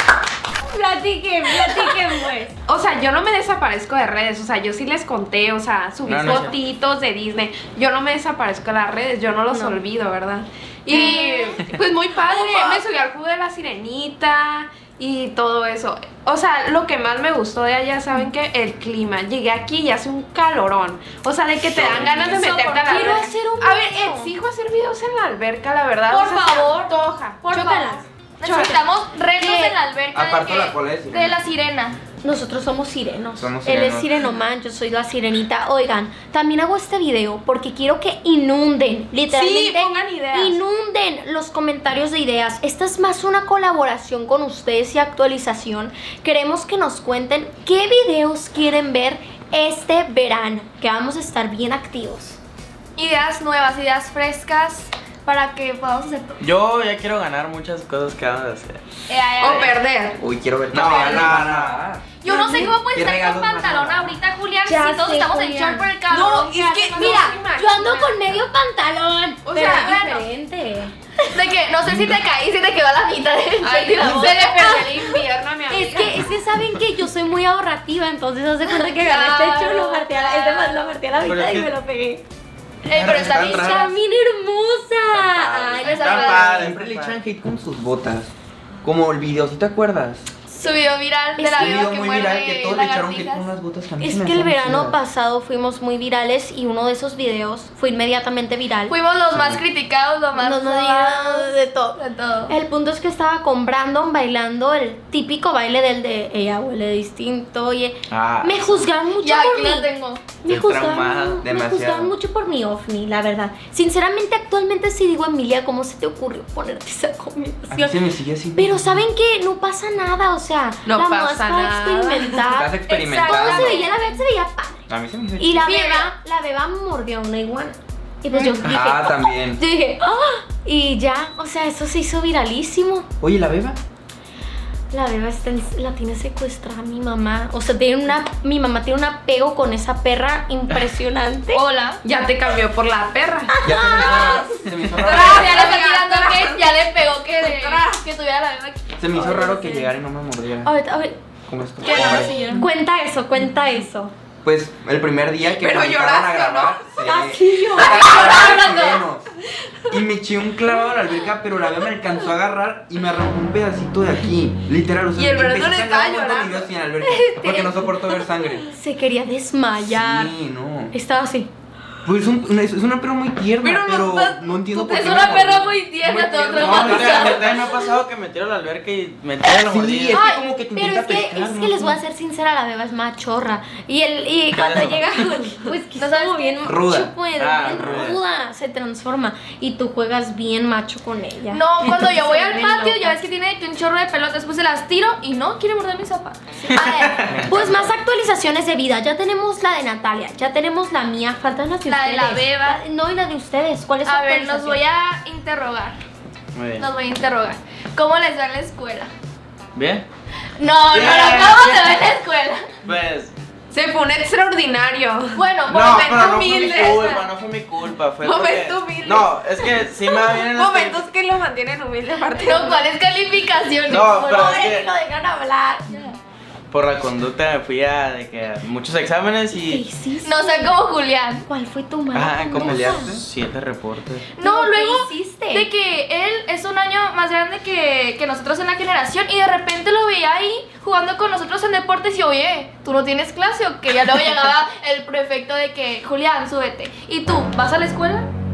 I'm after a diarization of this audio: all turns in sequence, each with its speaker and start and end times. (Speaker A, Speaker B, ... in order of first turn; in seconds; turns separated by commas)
Speaker A: 0.6-2.5, Speaker B: 2.7-27.9, Speaker C: 6.0-6.5, Speaker A: 9.5-9.8, Speaker A: 10.9-11.6, Speaker D: 10.9-11.3, Speaker A: 12.3-12.8, Speaker C: 21.6-22.4, Speaker A: 22.2-24.3, Speaker D: 22.9-23.3, Speaker D: 26.1-27.0, Speaker A: 27.4-28.1, Speaker D: 28.4-32.0, Speaker B: 28.4-28.8, Speaker A: 29.4-29.8, Speaker E: 30.1-31.4, Speaker A: 32.2-52.4, Speaker E: 33.4-34.1, Speaker B: 39.3-40.6, Speaker D: 53.0-56.4, Speaker C: 56.4-58.8, Speaker D: 59.1-59.8, Speaker B: 59.4-60.2, Speaker C: 59.4-59.7, Speaker E: 60.2-62.1, Speaker C: 60.7-61.8, Speaker D: 62.2-67.3, Speaker A: 62.3-62.7, Speaker E: 62.7-64.2, Speaker A: 64.7-65.9, Speaker B: 66.1-68.4, Speaker A: 66.9-70.9, Speaker B: 69.5-70.3, Speaker D: 69.7-70.0, Speaker D: 71.3-74.9, Speaker E: 71.8-72.2, Speaker B: 73.6-76.2, Speaker A: 74.0-82.2, Speaker D: 78.7-80.9, Speaker C: 81.2-81.7, Speaker D: 82.9-83.9, Speaker C: 82.9-83.9, Speaker A: 83.4-86.4, Speaker C: 85.1-87.2, Speaker D: 85.8-86.7, Speaker E: 86.5-88.3, Speaker E: 88.8-90.3, Speaker A: 90.5-90.8, Speaker D: 90.6-93.5, Speaker A: 91.4-91.9, Speaker E: 91.6-95.0, Speaker A: 94.0-99.0, Speaker D: 98.9-102.5, Speaker E: 99.3-99.6, Speaker A: 100.4-109.9, Speaker C: 108.1-108.9, Speaker D: 109.2-110.2, Speaker A: 110.4-118.0, Speaker C: 110.5-111.4, Speaker E: 111.4-112.1, Speaker E: 117.7-119.1, Speaker A: 118.5-124.8, Speaker B: 120.8-122.4, Speaker E: 122.5-123.9, Speaker D: 123.2-124.2, Speaker E: 124.9-125.6, Speaker A: 125.4-133.1, Speaker D: 125.6-126.1, Speaker B: 128.3-128.6, Speaker E: 128.6-129.6, Speaker E: 133.2-133.8, Speaker A: 134.9-141.6, Speaker D: 141.5-142.0, Speaker B: 142.0-143.6, Speaker A: 143.6-144.1, Speaker E: 143.6-145.6, Speaker D: 143.7-148.8, Speaker B: 145.0-146.7, Speaker B: 147.4-148.0, Speaker E: 149.0-150.7, Speaker A: 149.2-149.8, Speaker A: 150.6-151.2, Speaker E: 151.5-152.7, Speaker B: 151.8-152.6, Speaker A: 151.9-154.1, Speaker E: 154.4-159.3, Speaker B: 155.5-156.9, Speaker A: 157.0-158.3, Speaker B: 157.7-158.8, Speaker D: 157.8-159.1, Speaker E: 159.9-168.7, Speaker B: 165.2-166.7, Speaker A: 167.0-170.4, Speaker E: 169.8-170.9, Speaker A: 170.9-171.5, Speaker E: 172.1-177.6, Speaker B: 173.6-174.5, Speaker D: 174.7-177.8, Speaker C: 176.5-180.2, Speaker E: 179.5-182.0, Speaker A: 180.1-193.2, Speaker C: 184.5-185.0, Speaker D: 186.0-186.7, Speaker E: 186.6-187.2, Speaker C: 187.4-188.2, Speaker D: 191.5-197.1, Speaker C: 196.7-197.5, Speaker E: 197.3-197.9, Speaker A: 197.5-204.8, Speaker D: 201.9-202.8, Speaker D: 204.1-206.0, Speaker C: 206.6-206.9, Speaker D: 206.8-209.1, Speaker C: 209.8-210.1, Speaker D: 210.6-212.7, Speaker C: 210.9-212.0, Speaker C: 212.8-213.3, Speaker B: 213.7-215.4, Speaker D: 215.3-217.3, Speaker C: 215.7-221.1, Speaker B: 215.9-217.0, Speaker B: 218.2-222.9, Speaker D: 222.3-224.4, Speaker C: 223.9-224.9, Speaker A: 224.1-225.9, Speaker D: 225.9-226.2, Speaker C: 226.7-229.8, Speaker A: 229.5-230.8, Speaker D: 230.2-231.4, Speaker A: 231.5-233.2, Speaker C: 232.1-234.3, Speaker E: 232.5-233.2, Speaker D: 234.4-248.3, Speaker A: 234.4-235.7